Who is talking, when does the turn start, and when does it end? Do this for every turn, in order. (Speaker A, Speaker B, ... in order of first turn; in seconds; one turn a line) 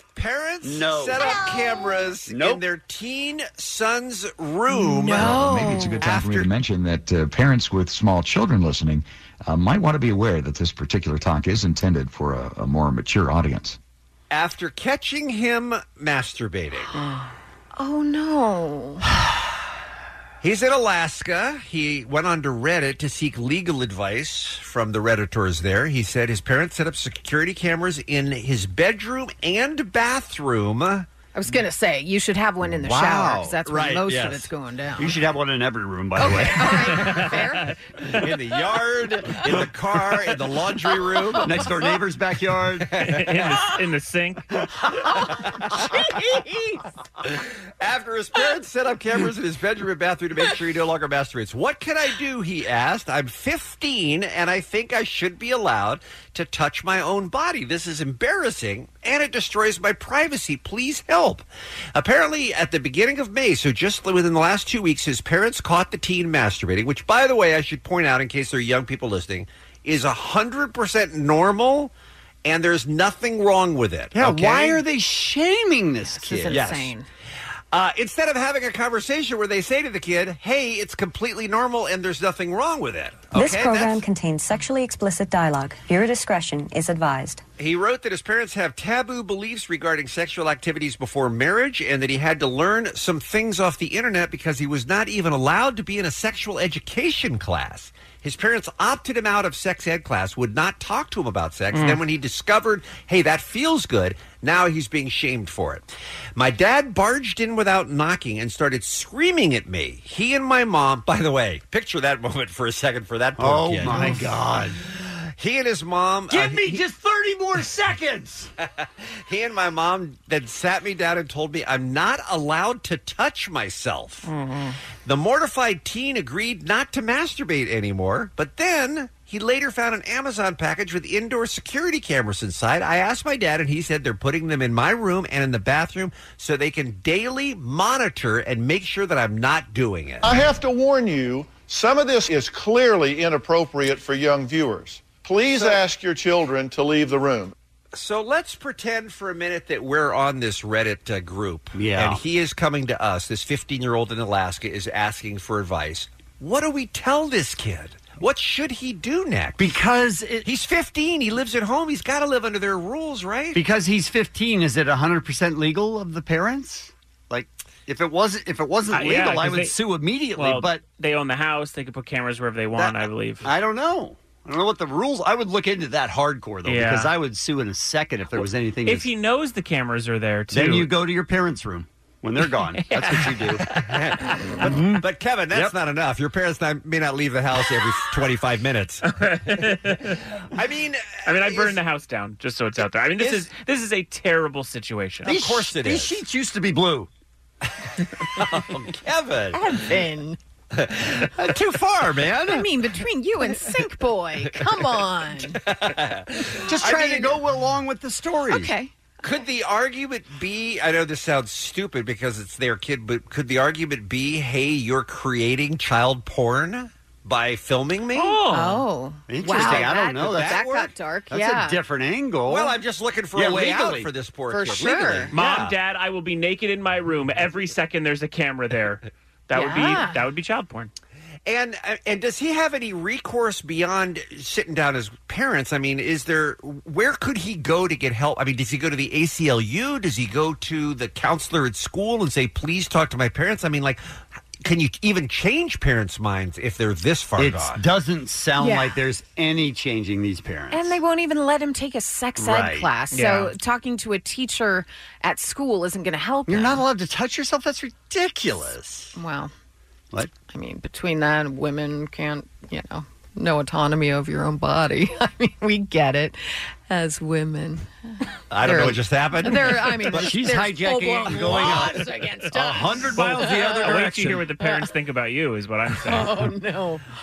Speaker A: 0.1-6.5
Speaker B: 0.6-1.5
Speaker B: 2.3-2.6
Speaker C: 4.7-6.0
Speaker D: 5.1-13.8
Speaker A: 14.3-16.9
Speaker C: 16.9-19.0
Speaker A: 20.4-31.1
Speaker C: 31.3-35.1
Speaker B: 32.6-34.3
Speaker A: 33.7-34.4
Speaker B: 35.0-37.2
Speaker C: 36.2-37.8
Speaker E: 37.0-37.4
Speaker A: 38.1-41.6
Speaker B: 41.4-42.9
Speaker A: 42.9-43.4
Speaker E: 43.0-44.6
Speaker C: 45.9-46.8
Speaker A: 47.2-71.9
Speaker A: 72.4-74.8
Speaker B: 74.1-76.8
Speaker C: 76.0-77.1
Speaker A: 76.5-76.9
Speaker A: 77.7-84.0
Speaker F: 83.3-87.4
Speaker A: 87.6-114.3
Speaker E: 101.7-102.0
Speaker B: 113.4-114.8
Speaker A: 115.0-116.8
Speaker B: 116.3-118.5
Speaker A: 118.8-124.3
Speaker E: 124.2-124.8
Speaker A: 125.0-140.3
Speaker G: 140.2-147.5
Speaker A: 147.9-159.7
Speaker B: 151.7-152.2
Speaker B: 159.6-160.5
Speaker A: 160.4-163.6
Speaker B: 163.5-170.8
Speaker E: 168.9-169.7
Speaker E: 170.3-173.5
Speaker B: 172.8-179.1
Speaker E: 176.6-177.1
Speaker E: 178.8-180.9
Speaker B: 180.5-183.7
Speaker E: 182.8-183.3
Speaker A: 183.7-189.1
Speaker B: 184.6-185.8
Speaker E: 189.1-190.2
Speaker A: 190.5-191.8
Speaker E: 191.2-195.4
Speaker A: 193.2-193.4
Speaker B: 195.2-197.1
Speaker A: 195.2-196.2
Speaker A: 198.3-199.6
Speaker C: 199.5-200.4
Speaker A: 200.7-202.6
Speaker C: 202.5-205.6
Speaker A: 205.5-207.3
Speaker C: 206.7-207.3
Speaker B: 206.8-208.7
Speaker C: 208.5-208.9
Speaker A: 209.2-218.4
Speaker E: 218.1-218.8
Speaker C: 218.5-221.8
Speaker B: 219.3-220.7
Speaker A: 219.4-220.9
Speaker B: 221.3-222.8
Speaker A: 222.5-225.7
Speaker B: 223.3-224.1
Speaker C: 224.5-225.3
Speaker E: 225.3-230.9
Speaker C: 229.5-230.2
Speaker A: 231.4-244.0
Speaker A: 244.6-247.8
Speaker B: 247.4-250.9
Speaker C: 248.6-249.0
Speaker C: 250.7-256.8
Speaker B: 252.4-252.9
Speaker E: 253.1-253.5
Speaker B: 256.5-259.1
Speaker C: 259.1-259.5
Speaker C: 260.5-267.9
Speaker A: 268.5-270.3
Speaker C: 268.6-274.0
Speaker B: 270.1-274.4
Speaker E: 272.8-276.5
Speaker C: 274.6-274.9
Speaker C: 276.0-277.0